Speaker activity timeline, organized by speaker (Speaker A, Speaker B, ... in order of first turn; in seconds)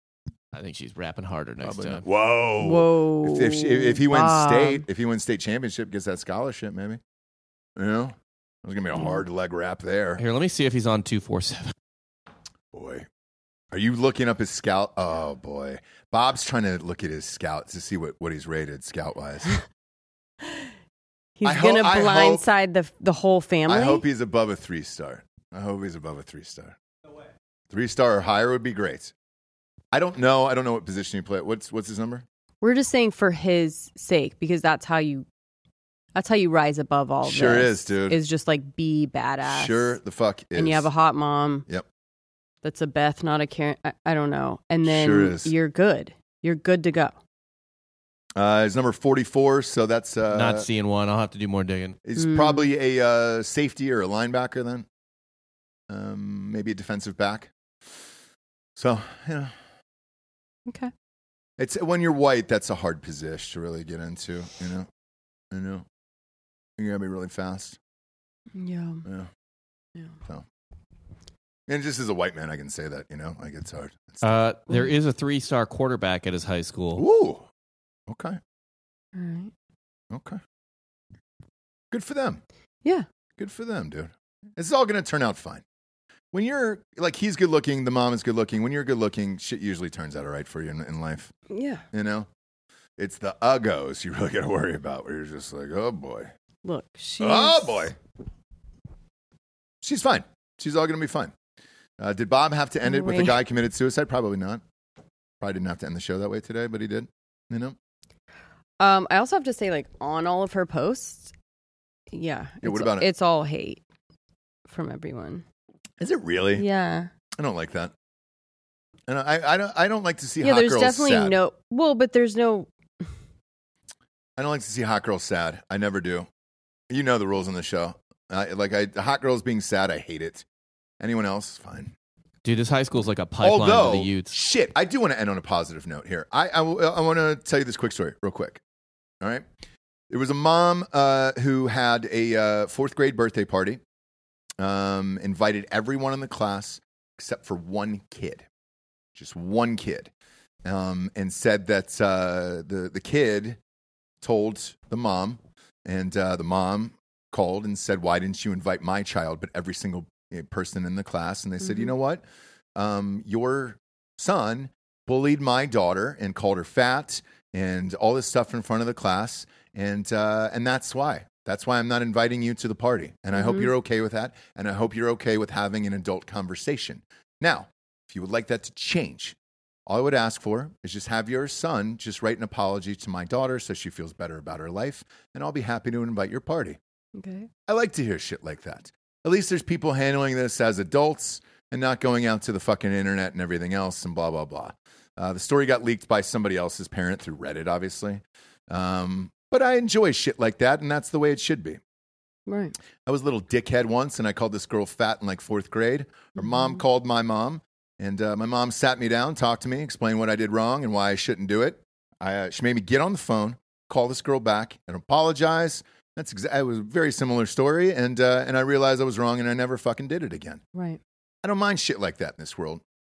Speaker A: 0.5-2.0, 10.2-11.7, 50.3-52.0, 74.2-77.0, 132.4-134.3
Speaker B: 1.6-7.0, 7.8-10.2, 12.7-13.1, 13.7-19.6, 21.4-22.4, 23.7-26.8, 27.7-29.1, 29.9-32.2, 37.2-38.2, 39.5-40.9, 44.8-45.5, 48.4-50.7, 52.0-54.9, 55.9-57.5, 58.8-59.5, 61.6-64.9, 65.5-65.8, 66.8-67.8, 71.7-74.3, 77.0-77.5, 78.1-78.4, 80.1-80.4, 81.9-82.4, 83.4-85.6, 86.3-91.3, 91.9-92.3, 93.0-96.3, 97.2-97.9, 99.8-101.3, 102.0-104.6, 105.4-107.8, 112.6-113.1, 116.0-116.7, 117.4-117.9, 119.1-121.4, 124.4-126.3, 126.9-130.4, 131.0-131.9, 133.4-138.6, 139.2-139.4, 140.1-143.8, 144.6-148.4, 149.1-150.1, 150.6-153.6, 154.2-162.2, 162.8-179.3, 179.9-186.8, 187.7-201.8, 203.1-220.6, 221.4-222.8
Speaker C: 2.6-4.8, 21.4-24.0, 32.6-35.2, 36.1-40.0, 40.5-41.6, 42.6-47.2, 52.2-52.6, 60.7-60.9, 68.5-69.0, 79.1-79.5, 91.5-91.8, 96.6-97.9, 102.8-103.4, 108.8-111.3, 112.1-113.8, 114.7-115.4, 116.5-117.1, 120.4-122.7, 173.3-173.7, 187.2-187.5, 202.5-202.7, 220.7-221.0